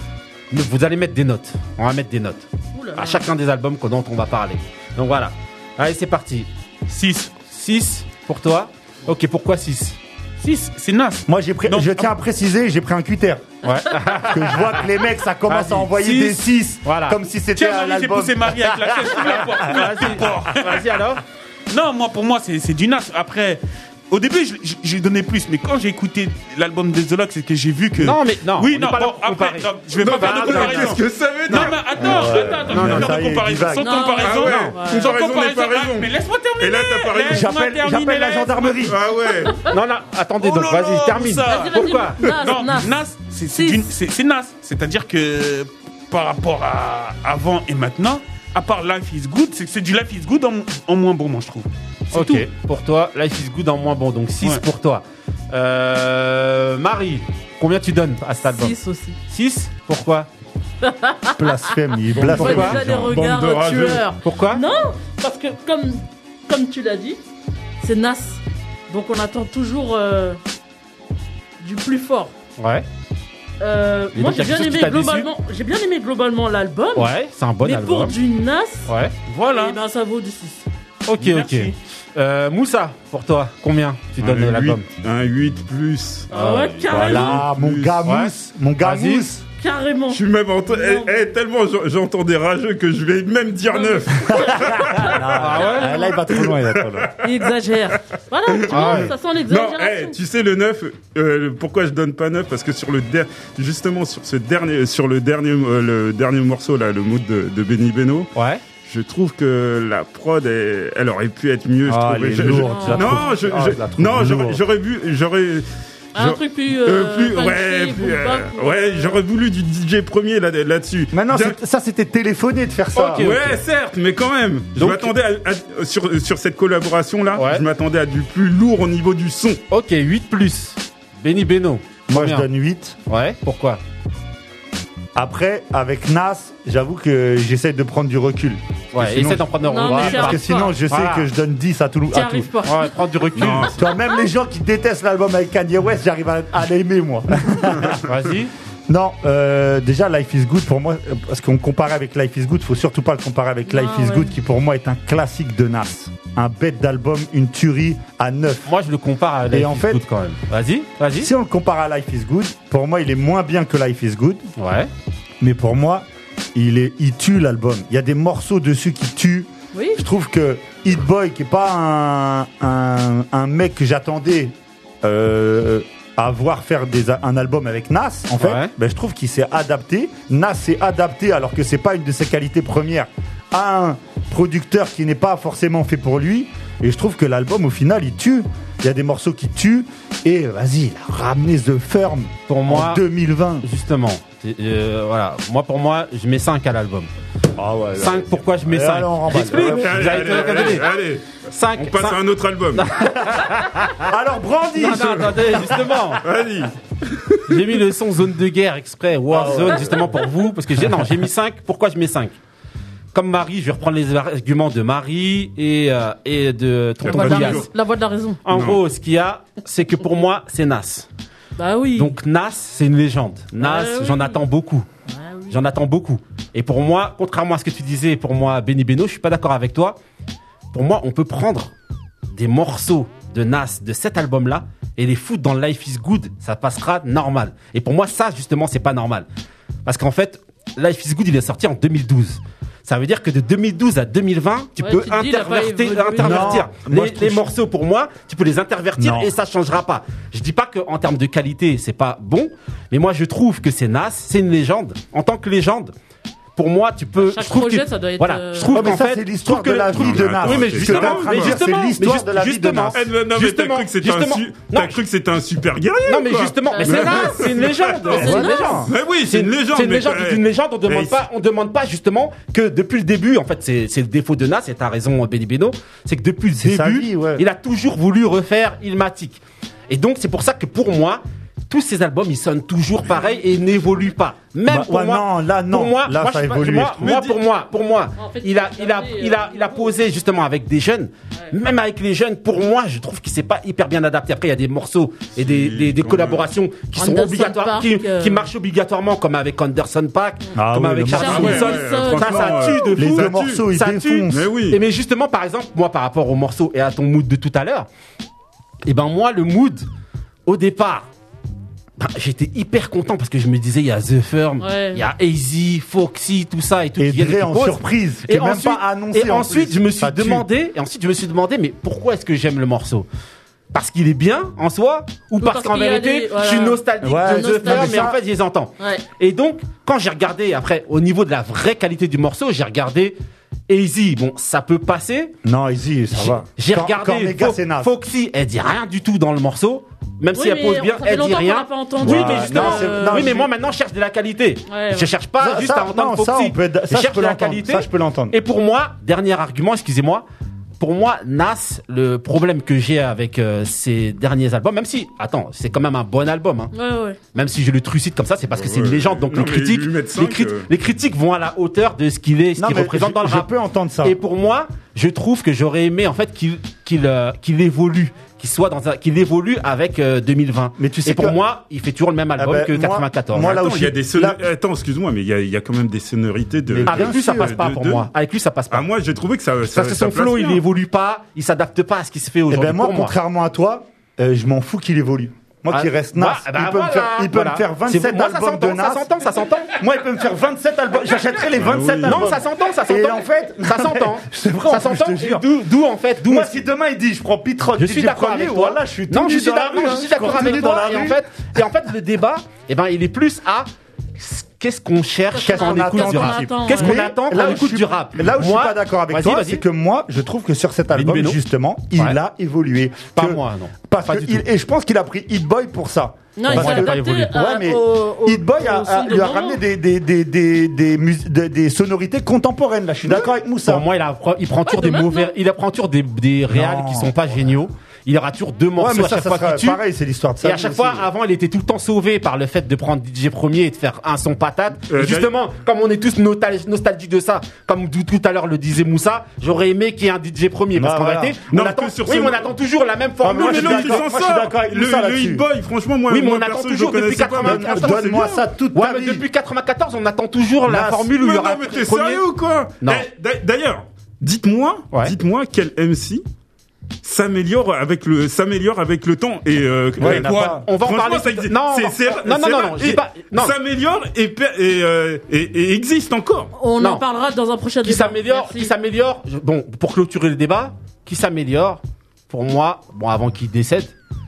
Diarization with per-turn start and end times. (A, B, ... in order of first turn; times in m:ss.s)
0:00.5-0:06.5 A
0:02.7-0:03.3 B
0:06.9-0:07.3 C
0:07.4-0:10.0 A
0:10.4-0:12.1 C
0:11.3-0:13.5 D
0:13.6-0:14.8 A
0:14.1-0:19.5 D
0:15.5-0:17.2 A
0:17.5-0:21.0 C
0:19.6-0:21.2 A
0:21.7-0:38.9 C
0:28.0-0:31.0 A
0:30.0-0:33.0 E
0:31.5-0:33.9 D
0:32.7-0:33.1 A
0:33.8-0:35.1 B
0:34.2-0:37.5 E
0:37.3-0:39.0 D
0:38.8-0:39.6 E
0:39.6-0:42.2 A
0:40.4-0:52.5 C
0:41.4-0:43.9 B
0:52.1-0:58.8 A
0:58.5-0:59.2 B
0:59.3-1:00.3 A
1:00.8-1:07.2 B
1:01.3-1:03.2 D
1:02.2-1:02.8 A
1:02.5-1:04.1 E
1:04.2-1:04.6 A
1:07.8-1:10.4 B
1:11.6-1:12.3 B
1:12.6-1:12.8 A
1:13.6-1:18.9 B
1:14.1-1:15.3 A
1:16.9-1:18.2 A
1:18.9-1:19.1 A
1:19.3-1:19.8 C
1:19.5-1:20.6 B
1:21.0-1:24.8 A
1:21.2-1:21.7 C
1:24.2-1:28.0 E
1:26.3-1:27.5 B
1:26.3-1:27.3 A
1:26.9-1:29.4 D
1:28.0-1:29.2 A
1:29.6-1:31.2 B
1:30.1-1:35.6 E
1:33.7-1:35.2 B
1:35.0-1:37.1 D
1:35.3-1:36.0 A
1:35.7-1:36.0 B
1:36.2-1:38.0 E
1:37.2-1:40.2 B
1:38.5-2:01.6 E
1:38.7-1:39.1 A
1:48.3-1:48.6 A
1:51.8-1:54.6 D
1:52.5-1:53.3 B
1:56.1-1:58.9 B
2:01.1-2:03.3 D
2:02.9-2:03.6 A
2:03.1-2:09.6 E
2:04.7-2:05.1 A
2:07.3-2:07.6 A
2:09.7-2:12.5 A
2:12.1-2:13.0 D
2:13.1-2:13.8 A
2:15.1-2:22.5 D
2:18.9-2:21.3 A
2:19.6-2:20.7 B
2:22.1-2:23.0 B
2:22.6-2:23.7 A
2:23.4-2:23.8 E
2:23.7-2:28.0 D
2:28.0-2:28.5 A
2:28.9-2:38.7 D
2:33.7-2:34.3 B
2:38.6-2:41.3 A
2:39.5-2:40.0 D
2:41.2-2:44.5 D
2:44.6-2:44.9 A
2:45.4-3:13.6 D
2:49.7-2:50.0 B
2:58.4-2:58.7 A
3:12.5-3:13.0 A
3:13.6-3:17.1 A
3:17.6-3:20.5 D
3:18.0-3:20.9 A
3:19.4-3:22.9 E
3:21.5-3:24.1 A
3:23.2-3:26.2 D
3:24.7-3:26.2 A
3:26.2-3:27.8 E
3:27.5-3:32.3 A
3:29.3-3:30.0 D
3:33.1-3:37.7 A
3:37.0-3:37.7 E
3:37.0-3:38.4 B
3:38.4-3:41.1 A
3:38.5-3:38.8 E
3:41.6-3:42.2 B
3:41.9-3:44.9 A
3:43.6-3:44.4 B
3:45.1-3:45.6 B
3:45.5-3:50.0 A
3:50.7-3:51.7 A
3:52.3-3:59.3 A
3:59.8-4:15.9 A
4:04.8-4:06.7 B
4:06.2-4:07.5 D
4:09.0-4:09.3 D
4:16.6-4:25.0 A
4:17.2-4:18.9 B
4:18.7-4:23.0 D
4:19.6-4:21.6 E
4:22.9-4:31.2 E
4:26.0-5:07.9 A
4:26.7-4:27.4 B
4:28.1-4:28.9 D
4:28.2-4:28.8 B
4:36.6-4:37.4 D
4:44.6-4:47.3 D
4:47.0-4:47.4 E
4:48.2-4:50.0 B
4:55.4-4:56.5 E
4:56.9-4:58.5 B
5:00.6-5:01.7 D
5:01.1-5:02.9 B
5:01.2-5:03.7 E
5:02.9-5:04.5 D
5:04.3-5:04.8 E
5:08.8-5:09.9 A
5:10.5-5:11.1 A
5:12.0-5:23.1 A
5:14.6-5:15.0 B
5:17.0-5:20.5 D
5:23.7-5:33.2 A
5:25.4-5:28.1 B
5:27.0-5:28.2 D
5:28.8-5:29.0 B
5:33.7-5:35.3 A
5:35.4-5:37.9 D
5:36.1-5:50.2 A
5:40.3-5:43.4 B
5:42.0-5:43.5 D
5:44.7-5:45.1 B
5:45.4-5:48.4 D
5:50.8-5:56.7 A
5:56.7-5:57.2 B
5:57.3-6:03.5 A
5:58.5-6:00.7 E
6:02.6-6:04.2 D
6:04.0-6:13.7 A
6:10.8-6:11.4 D
6:12.4-6:14.4 D
6:13.4-6:18.1 E
6:16.7-6:17.6 D
6:16.8-6:18.9 A
6:18.7-6:20.6 E
6:19.7-6:23.1 A
6:22.5-6:29.2 D
6:25.7-6:29.8 A
6:29.7-6:35.5 D
6:31.6-6:32.3 E
6:32.0-6:36.6 A
6:36.2-6:41.2 D
6:37.8-6:49.6 A
6:45.3-6:47.1 B
6:45.4-7:03.9 D
6:50.9-6:51.4 A
6:53.1-6:54.4 A
6:56.4-6:59.6 B
6:56.4-6:57.3 A
7:03.1-7:09.8 A
7:04.6-7:05.4 B
7:06.5-7:07.1 D
7:08.8-7:11.1 D
7:10.4-7:24.0 A
7:14.9-7:15.3 E
7:20.7-7:21.4 D
7:21.5-7:22.5 E
7:23.2-7:25.4 D
7:23.2-7:28.4 E
7:26.1-7:32.2 A
7:27.4-7:29.2 D
7:30.6-7:31.1 D
7:31.1-7:36.2 E
7:32.8-7:33.0 A
7:37.0-7:46.5 E
7:40.0-7:40.6 D
7:40.0-7:43.6 A
7:46.6-7:48.7 B
7:46.8-7:47.0 A
7:47.8-7:53.9 A